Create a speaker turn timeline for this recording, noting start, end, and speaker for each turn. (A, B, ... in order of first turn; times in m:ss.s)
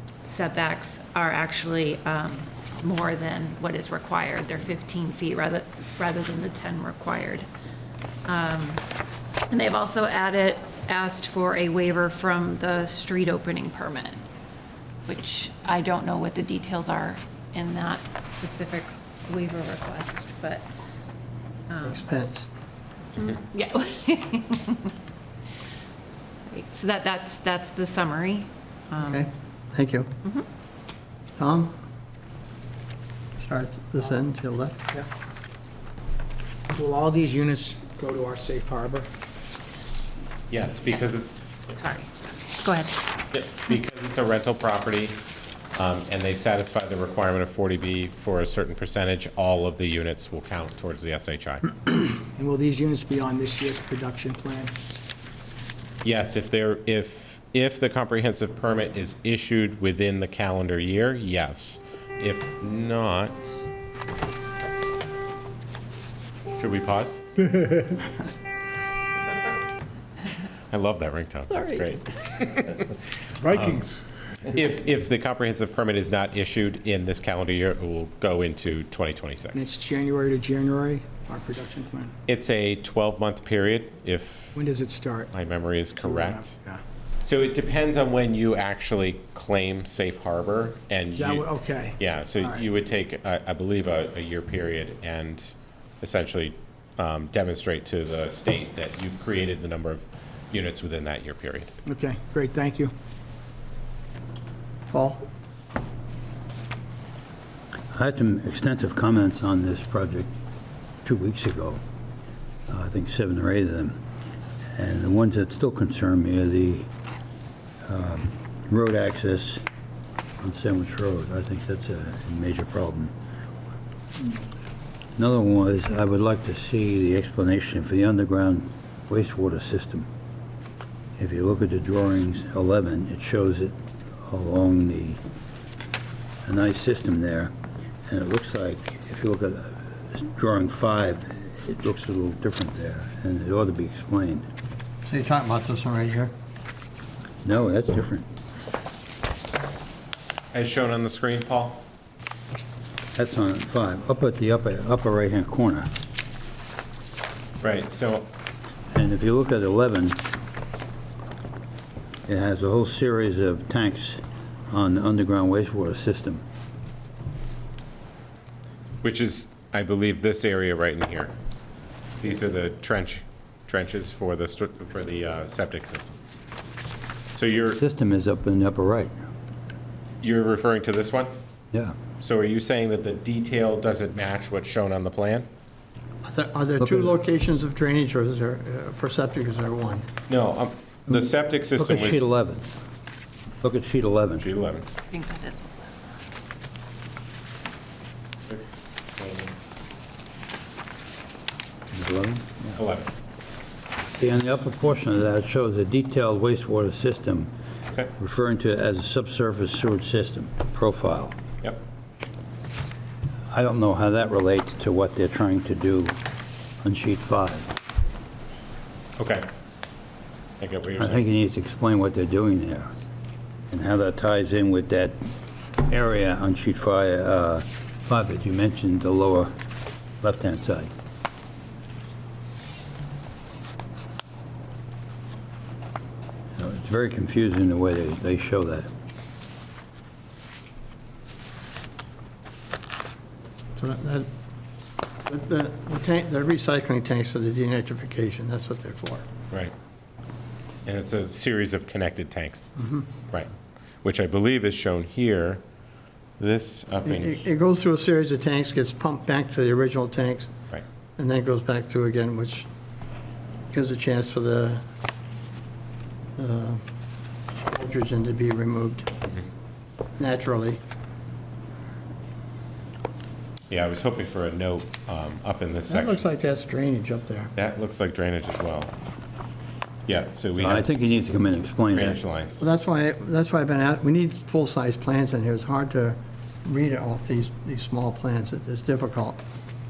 0:00.2-0:07.4 A
0:08.2-0:08.8 A
0:09.5-0:14.2 A
0:15.0-0:20.6 A
0:21.7-0:22.0 A
0:21.8-0:22.5 B
0:23.2-0:24.9 A
0:26.5-0:29.3 A
0:29.0-0:30.1 B
0:31.4-0:31.7 B
0:33.4-0:34.9 B
0:36.7-0:39.1 C
0:40.5-0:41.4 D
0:41.7-0:43.0 A
0:43.3-0:45.2 D
0:45.8-0:51.6 D
0:52.4-0:54.7 C
0:56.0-1:03.4 D
1:06.5-1:07.2 D
1:10.7-1:13.9 D
1:14.4-1:19.7 D
1:19.5-1:22.1 C
1:22.3-1:24.6 D
1:24.5-1:25.3 C
1:25.3-1:26.5 D
1:26.0-1:26.8 C
1:27.2-1:31.5 D
1:31.1-1:32.6 C
1:32.0-1:41.7 D
1:41.8-1:42.9 C
1:44.9-1:45.2 B
1:47.9-1:50.3 E
1:51.0-1:51.8 E
1:52.7-1:54.0 E
1:54.7-1:56.9 E
1:57.8-1:59.6 E
2:00.4-2:03.1 E
2:05.2-2:10.1 E
2:11.2-2:15.2 E
2:16.4-2:17.5 E
2:18.1-2:24.5 E
2:25.0-2:26.3 B
2:27.4-2:28.2 E
2:30.5-2:31.8 D
2:33.1-2:35.9 E
2:37.6-2:38.3 D
2:38.9-2:40.2 E
2:42.3-2:46.4 E
2:49.0-2:51.3 D
2:52.2-2:56.1 D
2:57.3-2:57.8 D
2:57.8-2:59.1 E
3:00.2-3:01.3 D
3:02.2-3:05.5 D
3:06.2-3:10.1 B
3:06.8-3:07.1 E
3:10.3-3:12.2 D
3:11.8-3:12.7 E
3:13.6-3:14.4 E
3:14.4-3:14.8 D
3:15.1-3:15.9 A
3:18.5-3:19.5 D
3:21.9-3:22.8 E
3:22.7-3:23.1 D
3:24.2-3:27.5 E
3:28.2-3:31.4 E
3:33.5-3:36.2 E
3:36.8-3:37.7 E
3:39.2-3:39.5 D
3:40.6-3:41.2 D
3:41.0-3:42.9 E
3:43.7-3:45.2 E
3:45.8-3:49.5 E
3:50.2-3:50.9 E
3:56.6-3:58.9 E
4:03.8-4:04.3 B
4:05.2-4:09.2 B
4:10.8-4:12.7 D
4:12.8-4:13.1 B
4:14.0-4:15.6 D
4:16.4-4:17.4 D
4:17.0-4:20.5 B
4:21.2-4:22.7 B
4:23.7-4:24.8 B
4:26.4-4:26.8 B
4:27.7-4:29.1 B
4:30.2-4:30.8 B
4:33.7-4:36.2 D
4:35.9-4:37.5 B
4:37.6-4:38.9 D
4:40.1-4:40.8 D
4:40.6-4:42.2 E
4:41.9-4:42.6 D
4:42.6-4:49.4 B